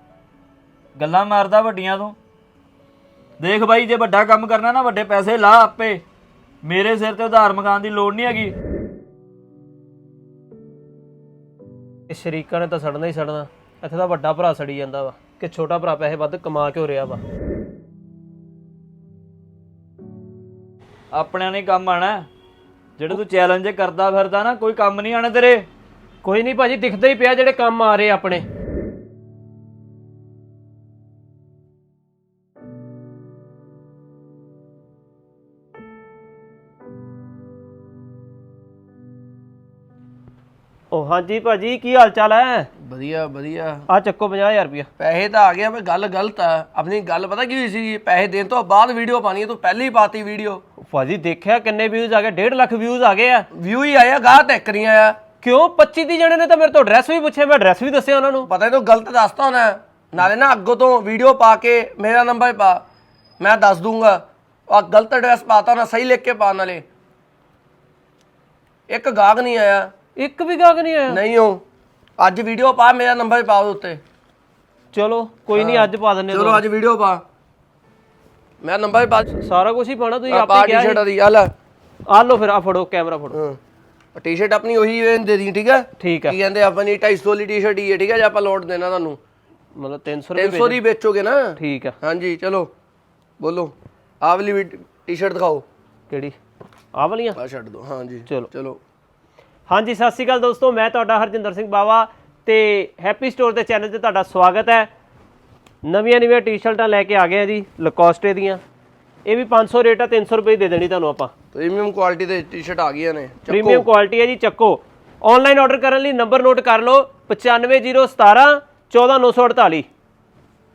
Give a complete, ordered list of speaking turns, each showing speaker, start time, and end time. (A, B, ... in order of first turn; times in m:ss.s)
0:01.0-0:02.2 A
0:03.4-0:06.0 A
0:06.6-0:08.5 A
0:12.1-0:17.2 B
0:21.1-0:22.3 A
0:23.0-0:25.6 A
0:26.2-0:28.4 B
0:40.9-0:42.7 B
0:42.8-0:43.9 C
0:43.9-0:44.9 B
0:45.0-0:50.6 C
0:50.8-0:53.5 B
0:53.5-0:55.2 C
0:55.4-0:58.5 B
0:58.5-1:02.8 C
1:03.4-1:06.8 C
1:08.9-1:09.9 C
1:10.2-1:11.2 B
1:11.1-1:11.6 C
1:12.2-1:14.0 C
1:14.9-1:16.6 B
1:15.5-1:17.2 C
1:18.6-1:19.2 C
1:19.3-1:21.0 B
1:20.3-1:21.5 C
1:22.1-1:23.4 B
1:23.3-1:23.6 C
1:24.1-1:29.2 C
1:26.0-1:26.4 B
1:29.7-1:30.8 B
1:30.4-1:32.7 C
1:31.6-1:32.0 B
1:33.4-1:35.6 C
1:36.1-1:36.4 B
1:36.9-1:37.4 B
1:37.4-1:38.8 C
1:39.7-1:44.9 B
1:45.8-1:48.6 B
1:49.2-1:51.3 B
1:51.5-1:53.9 C
1:53.5-1:59.9 B